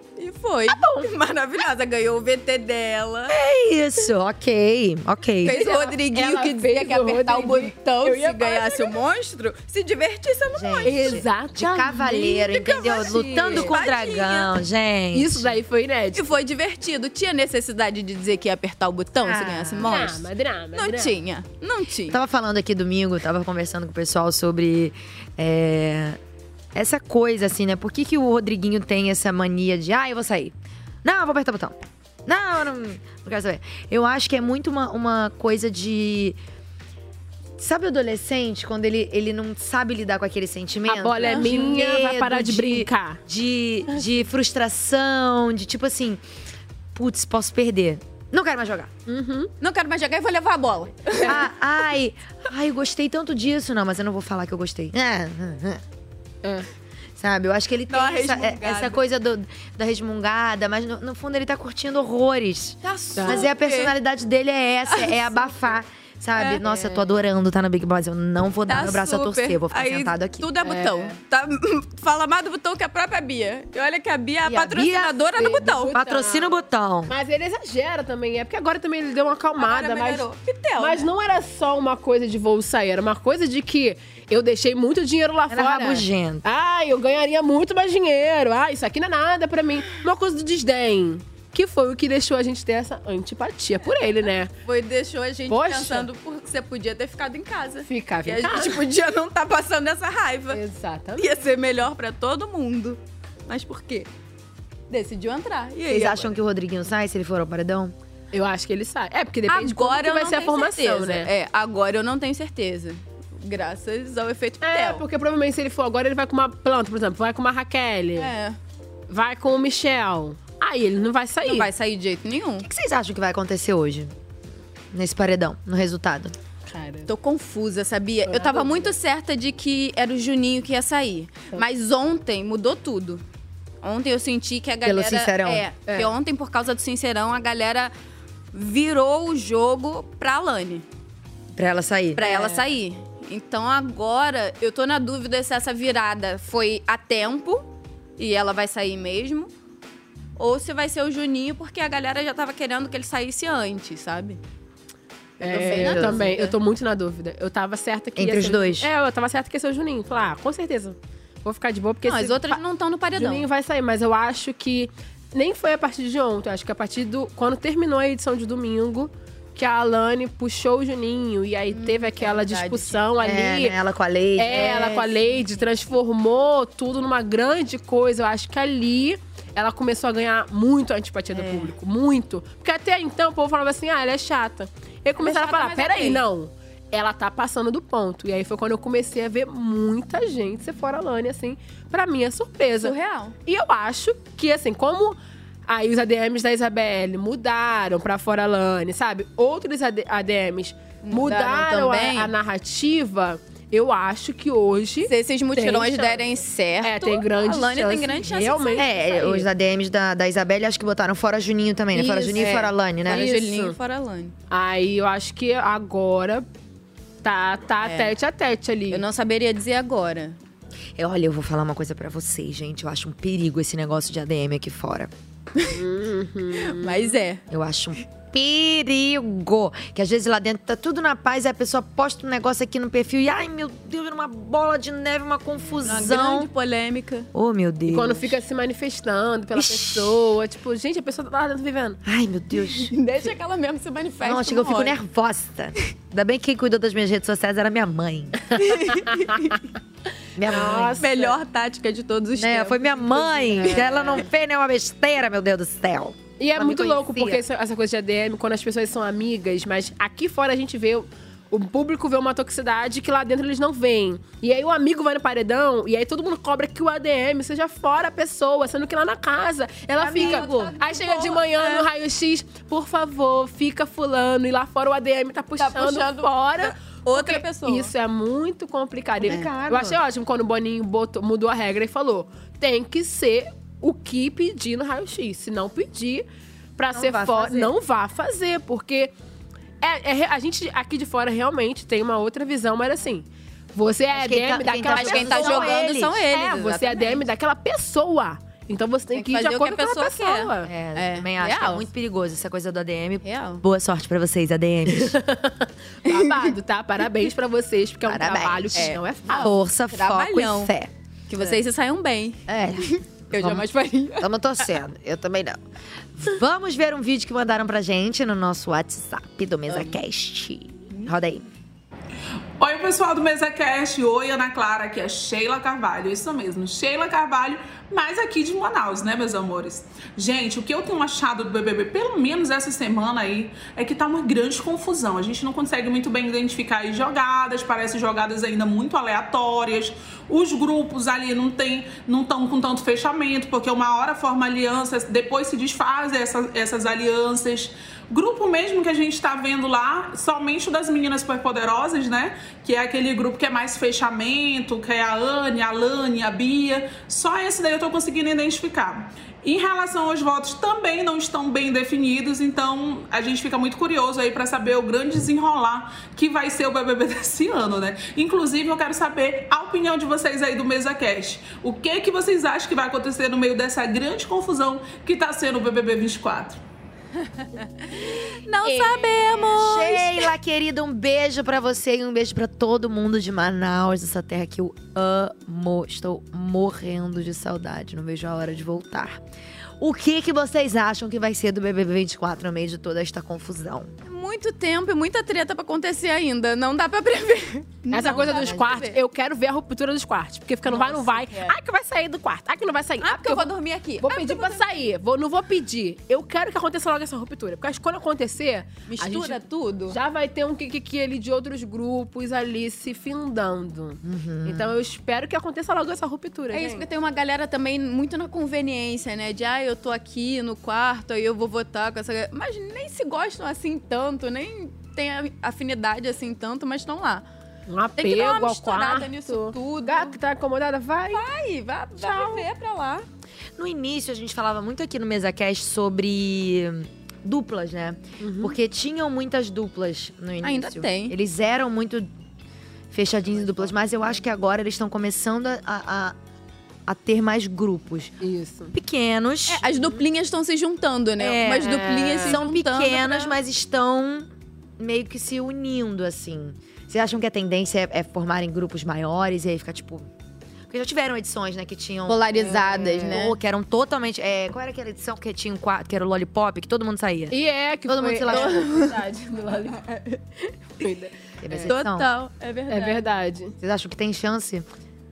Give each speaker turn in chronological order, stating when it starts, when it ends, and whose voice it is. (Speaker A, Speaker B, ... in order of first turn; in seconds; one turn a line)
Speaker A: 0.2-3.4
Speaker B: 3.3-5.6
Speaker A: 5.4-11.2
Speaker C: 5.4-9.0
Speaker B: 10.5-15.6
Speaker C: 10.8-13.7
Speaker A: 12.6-14.5
Speaker C: 15.1-16.4
Speaker A: 16.1-20.2
Speaker B: 19.2-19.9
Speaker C: 19.8-21.1
Speaker A: 20.7-22.2
Speaker B: 22.1-26.2
Speaker B: 26.7-36.4
Speaker B: 37.6-46.2
Speaker C: 40.9-43.2
Speaker A: 41.3-41.7
Speaker B: 46.9-48.9
Speaker C: 49.1-49.5
Speaker A: 49.6-51.4
Speaker B: 51.2-55.8
Speaker B: 57.2-70.5
Speaker A: 57.9-59.0
Speaker A: 62.8-63.9
Speaker C: 63.2-63.5
Speaker A: 64.9-65.5
Speaker C: 66.6-67.2
Speaker A: 68.7-76.0
Speaker C: 70.6-71.2
Speaker B: 74.5-75.2
Speaker C: 75.3-76.5
Speaker B: 75.9-77.1
Speaker C: 77.1-80.2
Speaker A: 79.6-81.1
Speaker C: 80.8-94.5
Speaker B: 85.5-86.4
Speaker A: 94.6-100.6
Speaker C: 95.5-96.1
Speaker C: 97.8-98.8
Speaker C: 100.5-101.3
Speaker A: 101.2-104.1
Speaker A: 104.9-106.3
Speaker B: 105.9-107.9
Speaker C: 108.3-111.3
Speaker A: 109.5-115.0
Speaker C: 114.6-118.3
Speaker A: 118.2-118.6
Speaker C: 119.1-121.7
Speaker A: 121.4-122.7
Speaker B: 122.6-124.1
Speaker B: 124.9-126.3
Speaker C: 126.7-127.1
Speaker A: 127.1-133.2
Speaker C: 128.3-128.9
Speaker A: 133.8-137.9
Speaker B: 134.8-135.6
Speaker C: 135.9-136.1
Speaker A: 138.5-140.8
Speaker B: 141.5-142.2
Speaker A: 142.2-147.7
Speaker C: 142.2-142.6
Speaker A: 148.2-149.5
Speaker A: 150.4-154.4
Speaker C: 155.4-162.6
Speaker A: 155.4-156.6
Speaker B: 155.6-156.2
Speaker B: 158.2-158.9
Speaker A: 162.0-163.4
Speaker C: 163.1-173.8
Speaker A: 171.7-173.0
Speaker B: 173.2-175.1
Speaker C: 174.4-192.9
Speaker A: 174.5-175.7
Speaker A: 181.3-181.7
Speaker A: 185.2-186.2
Speaker A: 192.8-193.3
Speaker C: 193.4-206.2
Speaker A: 201.0-202.3
Speaker A: 205.0-209.0
Speaker C: 206.8-209.5
Speaker B: 208.8-213.3
Speaker A: 211.9-214.3
Speaker C: 212.3-213.8
Speaker C: 214.5-216.4
Speaker C: 217.2-219.0
Speaker A: 217.8-218.1
Speaker A: 218.9-220.4
Speaker B: 221.0-225.1
Speaker C: 225.7-227.2
Speaker A: 226.6-227.4
Speaker B: 227.5-236.5
Speaker A: 235.8-237.3
Speaker B: 237.3-238.4
Speaker C: 237.9-242.0
Speaker B: 239.5-240.2
Speaker B: 242.0-242.9
Speaker A: 242.7-245.0
Speaker B: 244.2-248.5
Speaker A: 248.6-249.6
Speaker B: 250.4-251.0
Speaker C: 250.4-251.4
Speaker A: 251.0-254.0
Speaker B: 252.3-257.4
Speaker C: 253.5-254.2
Speaker C: 256.4-286.2
Speaker B: 270.0-270.7
Speaker A: 270.0-271.9
Speaker A: 275.6-277.9
Speaker B: 279.2-280.0
Speaker C: 286.8-289.1
Speaker B: 286.9-287.7
Speaker C: 289.8-300.7
Speaker B: 294.1-296.2
Speaker A: 294.9-297.2
Speaker A: 299.1-301.9
Speaker B: 300.6-305.2
Speaker A: 303.2-303.6
Speaker C: 304.9-309.5
Speaker A: 306.1-306.5
Speaker B: 308.0-310.9
Speaker A: 308.7-310.7
Speaker A: 311.3-314.3
Speaker B: 312.5-313.6
Speaker B: 314.2-315.6
Speaker B: 316.1-321.4
Speaker A: 319.7-319.9
Speaker D: 322.6-376.6
Speaker A: 377.6-380.3
Speaker C: 378.6-379.4
Speaker B: 379.4-389.2
Speaker B: 389.8-393.9
Speaker A: 394.0-399.0
Speaker C: 397.9-416.9
Speaker B: 398.4-398.6
Speaker A: 400.6-401.6
Speaker A: 403.0-404.8
Speaker A: 408.9-410.0
Speaker B: 414.0-414.8
Speaker A: 416.5-427.2
Speaker C: 427.7-431.2
Speaker A: 428.0-430.1
Speaker A: 431.1-433.1
Speaker C: 432.0-432.4
Speaker B: 433.6-442.1
Speaker C: 438.2-438.6
Speaker A: 440.4-441.1
Speaker B: 442.9-446.1
Speaker B: 446.9-448.1
Speaker C: 448.2-448.7
Speaker B: 448.7-449.6
Speaker A: 449.5-453.4
Speaker B: 451.2-460.1
Speaker C: 451.6-452.4
Speaker B: 460.7-468.8
Speaker A: 462.1-463.4
Speaker C: 467.3-469.8
Speaker A: 468.3-469.0
Speaker A: 469.6-470.2
Speaker C: 470.8-471.7
Speaker B: 471.4-472.1
Speaker A: 471.7-473.1
Speaker C: 472.7-473.5
Speaker B: 473.6-474.7